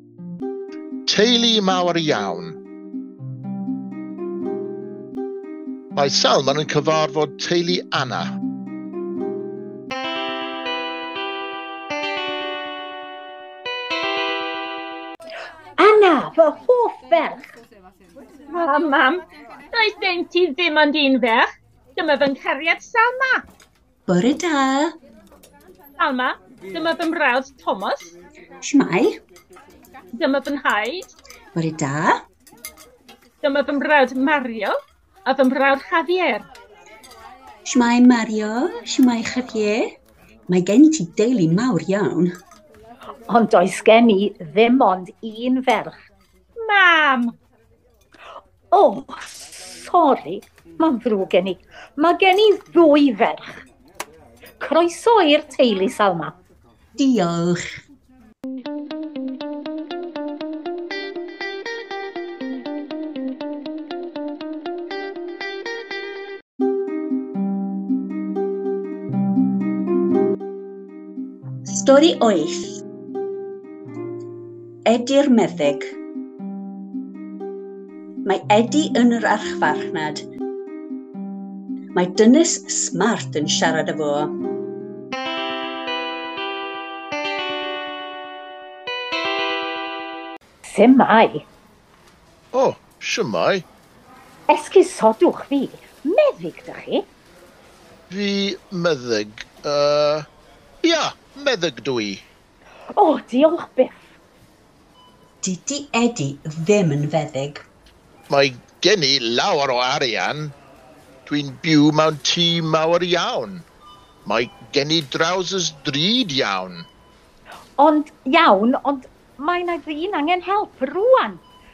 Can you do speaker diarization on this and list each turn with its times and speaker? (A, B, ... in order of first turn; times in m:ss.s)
0:01.1-0:02.6 A
0:06.0-0:08.3 A
0:15.8-0:17.5 B
0:18.5-0:19.2 C
0:19.7-0:23.4 C
0:24.1-0:25.0 D
0:26.0-0:28.1 C
0:28.6-0:29.2 D
0:30.2-0:31.1 C
0:31.5-0:32.2 D
0:33.4-0:34.7 C
0:35.3-0:36.5 C
0:37.7-0:40.0 D
0:40.5-0:42.3 D
0:43.3-0:46.0 B
0:46.7-0:47.4 C
0:48.7-0:53.6 B
0:54.6-0:56.4 B
0:57.0-0:57.6 D
1:11.7-1:12.8 D
1:14.9-1:15.9 D
1:18.2-1:20.2 D
1:21.9-1:24.3 D
1:30.6-1:31.4 B
1:32.5-1:33.7 A
1:34.5-1:37.1 B
1:38.1-1:40.3 A
1:40.8-1:42.2 A
1:42.9-1:44.1 B
1:45.4-1:47.6 D
1:48.3-1:50.6 A
1:51.3-1:53.7 A
1:54.2-1:56.9 A
1:57.8-2:01.4 B